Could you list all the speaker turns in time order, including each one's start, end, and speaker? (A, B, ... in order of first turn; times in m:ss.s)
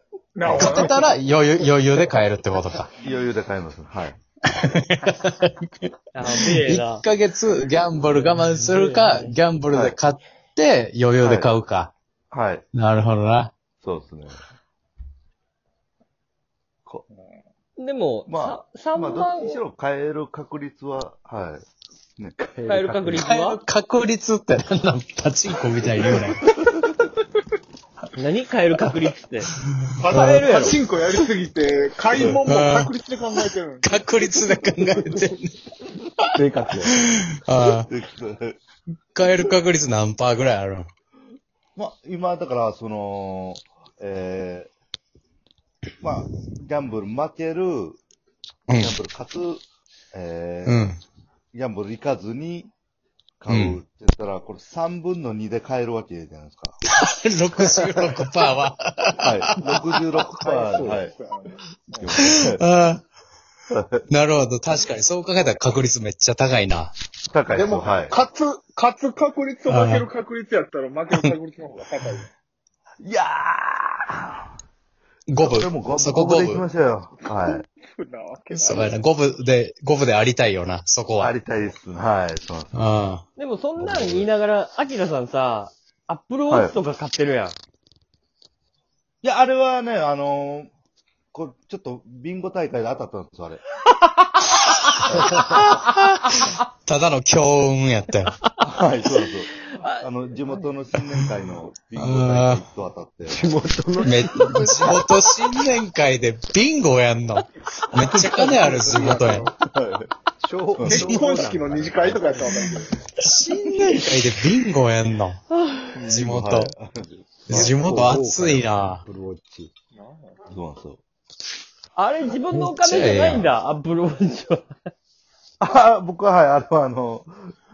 0:00.4-0:01.0 A
0:00.5-0:00.9 B
0:00.5-0:02.9 C
0:03.0-0:04.2 B
0:04.5-0:11.9 C
0:06.1-0:07.0 D
0:08.6-0:09.3 D
0:11.2-0:11.5 B
0:12.3-0:12.6 B
0:12.7-0:13.5 C
0:13.8-0:14.4 B
0:17.8-0:19.6 D
0:18.3-0:21.6 B
0:22.2-0:22.5 B
0:22.6-0:22.9 E
0:22.6-0:23.6 D
0:23.1-0:26.5 C
0:28.1-0:29.5 D
0:29.7-0:30.4 C
0:30.0-0:34.3 A
0:30.1-0:30.8 D
0:32.1-0:32.4 B
0:32.4-0:32.9 C
0:33.8-0:35.5 C
0:36.2-0:37.9 C
0:36.3-0:37.0 E
0:37.8-0:38.6 B
0:39.1-0:40.9 C
0:41.8-0:44.7 B
0:46.0-0:48.0 B
0:48.7-0:48.9 C
0:48.7-0:50.9 B
0:50.6-0:51.0 C
0:51.5-0:52.7 B
0:53.4-0:56.8 B
0:53.5-0:53.8 C
0:56.9-1:00.0 C
0:59.2-1:01.1 B
1:00.3-1:02.2 A
1:02.0-1:02.6 B
1:02.1-1:03.0 C
1:03.7-1:04.0 B
1:04.1-1:06.9 C
1:07.3-1:08.2 B
1:07.5-1:12.3 A
1:09.7-1:10.1 C
1:13.0-1:14.5 B
1:15.3-1:16.6 C
1:15.4-1:17.6 B
1:17.2-1:18.9 A
1:18.5-1:21.4 C
1:21.2-1:22.8 B
1:22.7-1:23.2 C
1:23.4-1:27.6 D
1:23.8-1:24.3 B
1:26.5-1:26.7 B
1:29.2-1:30.7 B
1:31.3-1:33.6 B
1:35.0-1:35.4 B
1:35.2-1:38.3 C
1:38.6-1:43.4 B
1:39.7-1:40.0 D
1:42.0-1:42.6 C
1:43.3-1:45.0 E
1:44.0-1:49.5 C
1:48.3-1:49.4 A
1:48.8-1:49.5 E
1:49.7-1:50.1 B
1:50.4-1:52.7 E
1:50.7-1:51.0 B
1:50.9-1:53.0 A
1:50.9-1:51.2 C
1:53.2-1:55.4 C
1:53.3-1:53.8 D
1:55.5-1:56.1 D
1:56.0-1:56.2 A
1:56.0-1:56.7 C
1:56.1-1:58.1 B
1:57.5-1:59.0 C
1:57.5-1:59.7 E
1:59.9-2:00.4 A
2:00.5-2:01.0 B
2:02.0-2:04.7 D
2:02.5-2:03.5 C
2:05.6-2:07.5 B